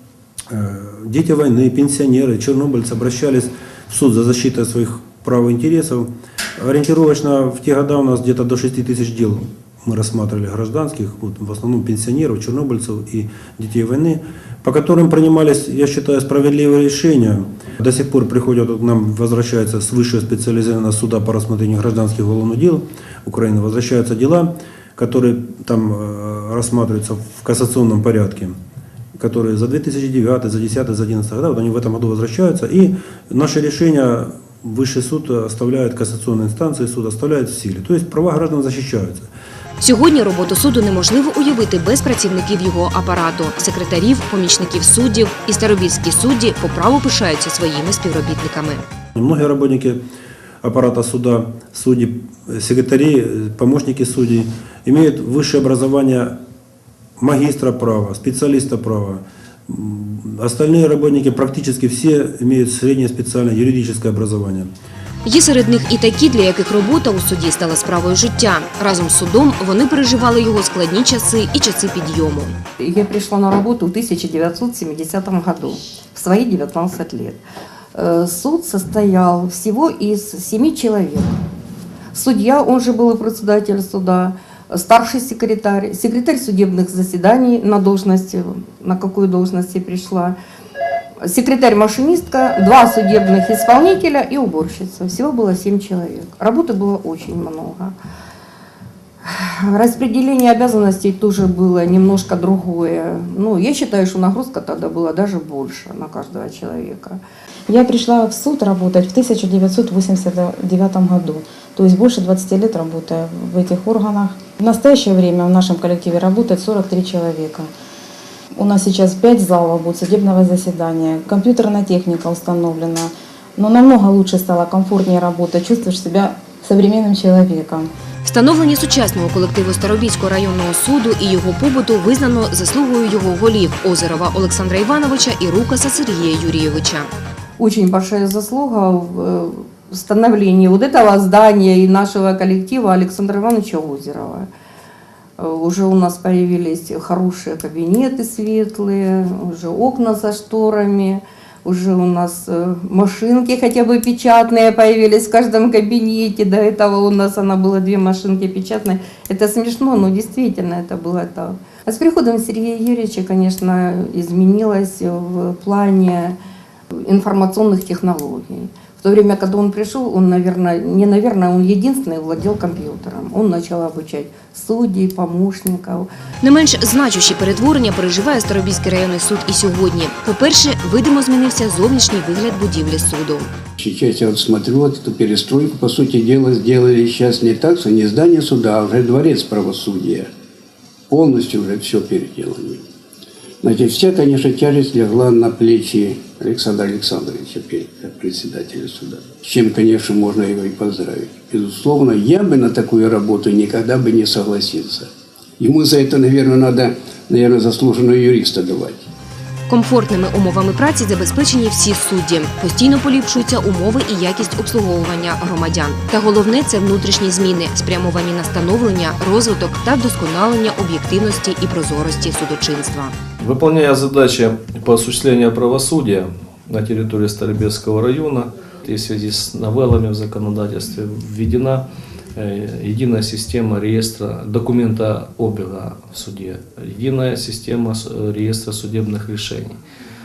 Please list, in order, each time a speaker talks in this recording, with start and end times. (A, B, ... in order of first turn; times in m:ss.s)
0:00.5-0:28.6 A
0:29.2-0:39.3 A
0:39.8-0:48.8 B
0:49.2-0:50.0 A
0:50.6-0:56.4 A
0:57.2-1:04.7 A
1:05.2-1:12.6 B
1:12.8-1:17.4 C
1:17.9-1:21.4 C
1:22.1-1:30.3 C
1:31.2-1:37.9 C
1:39.2-1:47.2 C
1:47.7-1:57.7 D
1:58.5-2:07.9 D
2:08.2-2:17.1 B
2:17.6-2:24.5 C
2:25.4-2:46.4 C
2:46.9-2:56.1 C
2:56.4-3:03.5 B
3:03.8-3:10.3 E
3:11.1-3:12.8 E
3:13.6-3:29.1 E
3:29.7-3:43.2 B
3:43.4-3:51.8 F
3:52.4-3:59.8 F